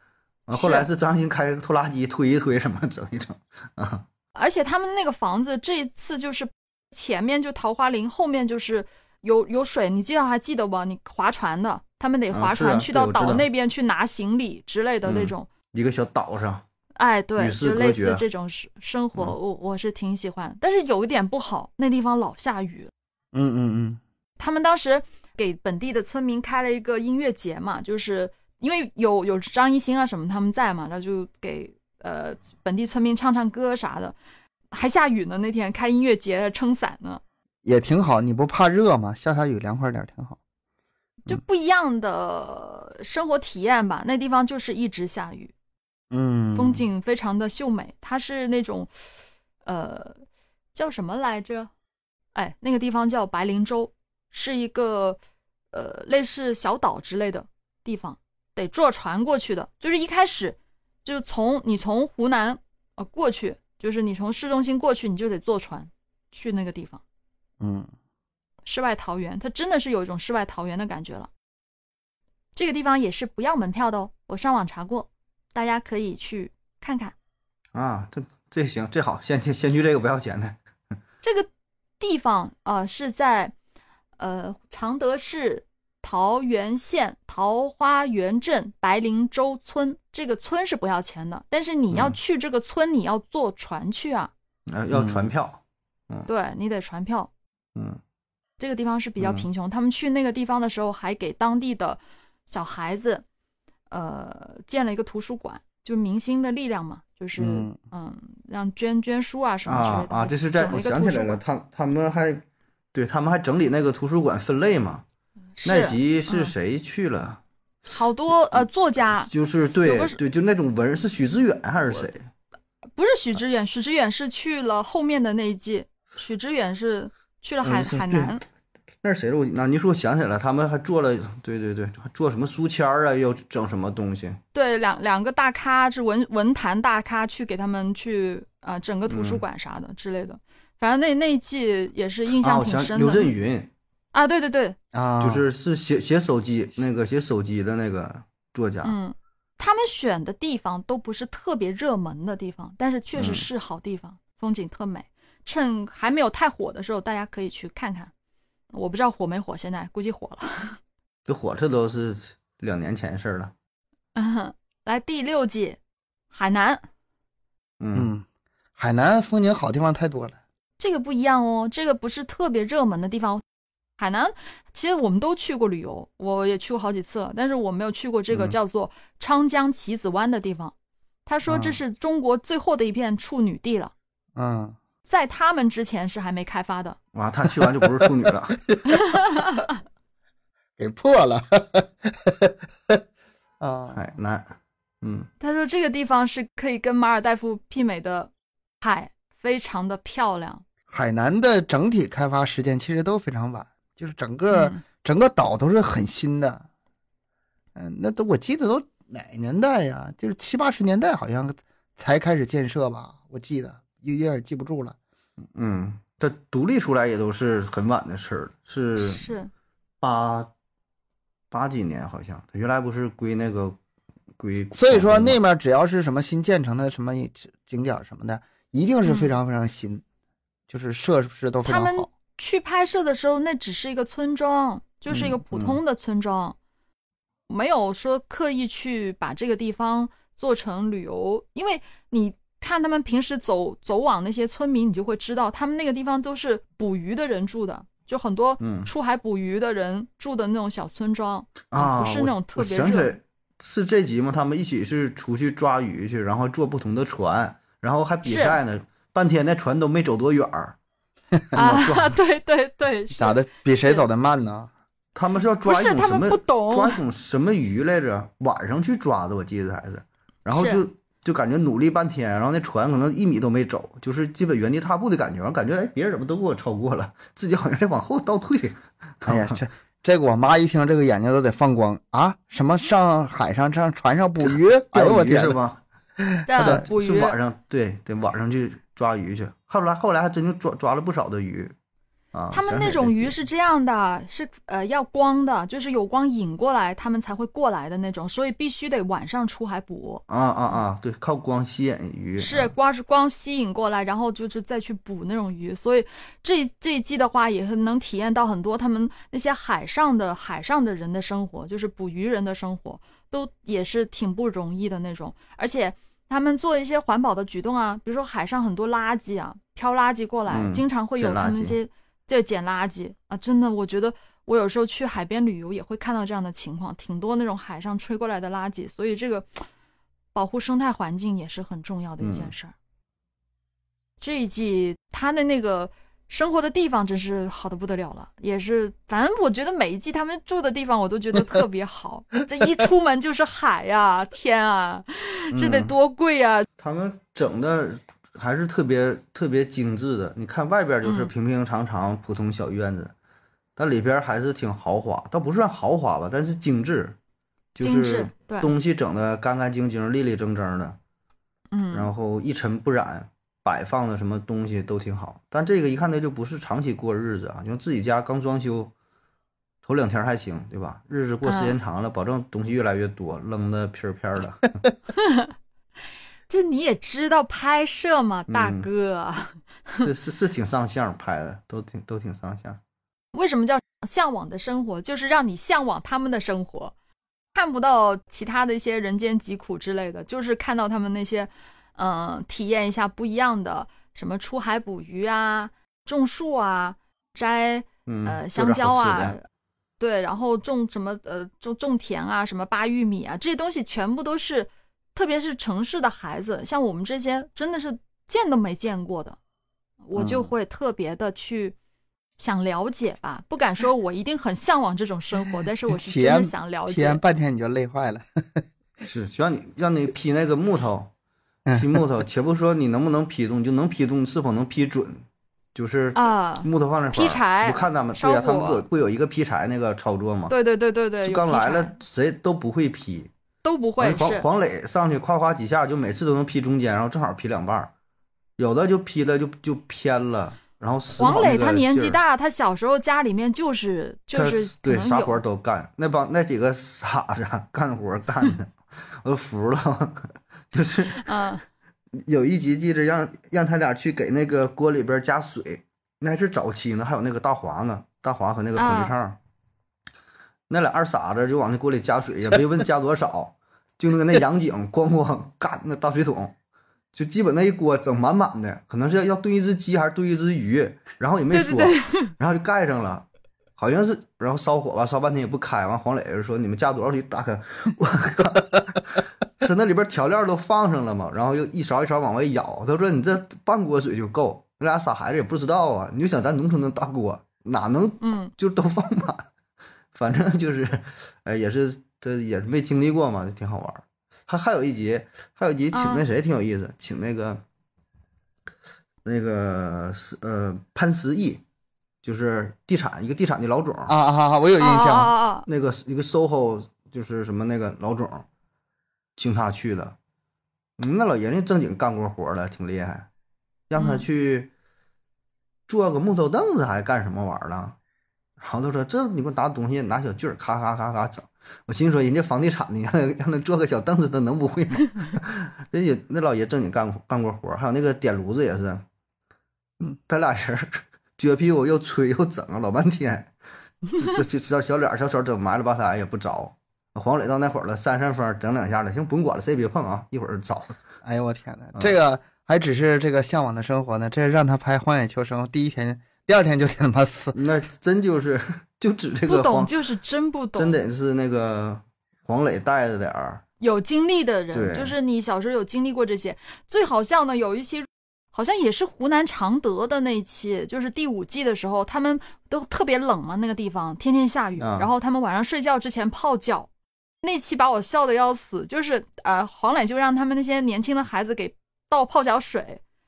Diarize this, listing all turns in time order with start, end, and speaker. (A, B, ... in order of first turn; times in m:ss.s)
0:00.5-0:04.0 A
0:00.5-0:00.9 B
0:04.3-0:15.5 B
0:12.3-0:13.5 A
0:15.0-0:16.6 A
0:17.0-0:22.9 B
0:17.4-0:18.2 A
0:23.3-0:24.0 C
0:24.4-0:34.2 B
0:34.7-0:37.2 B
0:37.6-0:40.4 C
0:41.2-0:45.5 B
0:46.1-0:46.8 C
0:46.6-0:48.9 B
0:49.6-0:50.2 B
0:50.7-0:51.7 B
0:52.3-0:55.2 B
0:55.7-1:07.0 B
1:07.6-1:07.9 C
1:08.6-1:11.3 B
1:12.6-1:17.1 B
1:17.7-1:20.6 A
1:21.2-1:21.5 B
1:22.0-1:23.5 B
1:24.2-1:34.3 B
1:31.9-1:32.2 A
1:34.7-1:36.3 A
1:34.9-1:35.3 C
1:36.3-1:37.3 B
1:38.6-1:43.2 B
1:39.2-1:39.4 A
1:43.9-1:51.4 B
1:47.4-1:47.8 C
1:49.6-1:55.0 A
1:55.6-1:56.5 B
1:55.6-1:57.4 A
1:57.9-1:59.3 B
1:59.3-2:02.2 A
1:59.8-2:00.2 B
2:03.0-2:08.4 B
2:07.6-2:08.4 A
2:09.0-2:14.4 A
2:14.5-2:23.3 B
2:19.1-2:19.4 A
2:22.4-2:23.7 A
2:24.1-2:24.8 B
2:24.9-2:25.4 C
2:25.2-2:29.0 A
2:28.8-2:38.1 B
2:33.2-2:33.4 A
2:38.7-2:40.8 B
2:41.3-2:43.5 A
2:44.1-2:45.8 B
2:46.3-2:46.8 B
2:47.8-2:48.1 A
2:47.9-2:48.2 C
2:48.8-2:50.4 C
2:50.8-2:53.4 B
2:54.0-3:00.7 B
2:58.3-2:58.6 A
3:01.2-3:03.9 B
3:01.5-3:01.8 C
3:04.4-3:04.8 C
3:05.0-3:07.0 B
3:07.1-3:08.6 A
3:07.7-3:09.6 C
3:08.9-3:09.7 B
3:10.8-3:13.0 C
3:13.6-3:14.0 C
3:13.9-3:15.3 A
3:15.4-3:18.3 B
3:18.8-3:20.6 B
3:20.9-3:26.6 C
3:24.5-3:24.8 B
3:27.8-3:35.0 C
3:35.5-3:39.2 A
3:39.0-3:39.5 B
3:40.0-3:40.5 A
3:41.5-3:43.8 A
3:44.4-3:45.4 A
3:44.7-3:50.0 C
3:49.0-3:49.3 B
3:50.7-3:52.1 C
3:51.6-3:56.6 B
3:55.1-3:55.4 C
3:55.5-3:55.8 A
3:57.5-4:13.2 B
4:08.6-4:08.9 A
4:11.7-4:20.8 A
4:18.2-4:18.6 B
4:21.5-4:22.1 A
4:21.5-4:24.0 B
4:23.2-4:24.7 C
4:25.1-4:39.6 A
4:25.6-4:27.0 B
4:30.5-4:30.8 B
4:39.2-4:45.6 C
4:44.4-4:45.8 A
4:46.2-4:46.8 C
4:46.4-4:47.4 B
4:46.6-4:51.7 A
4:52.3-4:53.3 A
4:52.5-5:00.8 B
5:00.3-5:02.7 A
5:02.4-5:29.7 B
5:20.5-5:21.8 A
5:30.3-5:32.7 B
5:32.2-5:32.5 A
5:34.2-5:46.6 B
5:45.5-5:45.9 A
5:46.8-5:53.1 A
5:51.0-5:51.3 B
5:53.8-5:57.2 A
5:57.8-6:01.0 A
5:57.8-5:58.7 B
6:01.7-6:02.1 B
6:01.9-6:08.9 A
6:09.8-6:14.8 A
6:11.4-6:11.8 B
6:15.2-6:15.5 B
6:16.5-6:20.1 B
6:18.5-6:18.9 A
6:20.0-6:22.8 A
6:23.3-6:26.9 B
6:27.5-6:39.4 B
6:38.1-6:39.4 A
6:40.0-6:49.4 B
6:50.0-6:51.8 B
6:50.1-6:50.5 C
6:52.4-6:57.2 B
6:55.9-6:58.6 C
6:59.0-7:01.1 A
7:01.6-7:02.0 C
7:01.7-7:05.2 A
7:05.7-7:10.5 A
7:06.1-7:08.8 B
7:10.5-7:11.9 B
7:11.2-7:13.3 A
7:13.6-7:14.4 B
7:14.0-7:17.9 A
7:18.6-7:22.2 A
7:21.2-7:25.4 B
7:24.3-7:31.4 A
7:31.2-7:31.6 B
7:32.2-7:39.4 A
7:38.8-7:39.1 B
7:40.7-7:46.5 A
7:47.1-8:09.4 A
7:51.5-7:52.3 B
8:08.2-8:08.5 B
8:10.1-8:17.6 A
8:15.9-8:16.2 B
8:19.2-8:21.6 A
8:22.2-8:24.1 A
8:24.1-8:25.3 C
8:24.8-8:25.7 B
8:25.7-8:28.4 A
8:29.4-8:30.2 A
8:31.0-8:33.3 A
8:33.9-8:34.7 A
8:34.0-8:34.2 B
8:35.9-8:38.0 A
8:38.6-8:49.0 A
8:50.3-8:53.5 A
8:54.1-9:01.0 A
9:01.2-9:07.5 C
9:07.5-9:09.9 A
9:09.5-9:11.0 B
9:10.7-9:13.6 A
9:13.8-9:26.9 B
9:14.7-9:15.1 A
9:24.8-9:25.1 A
9:27.4-9:33.0 B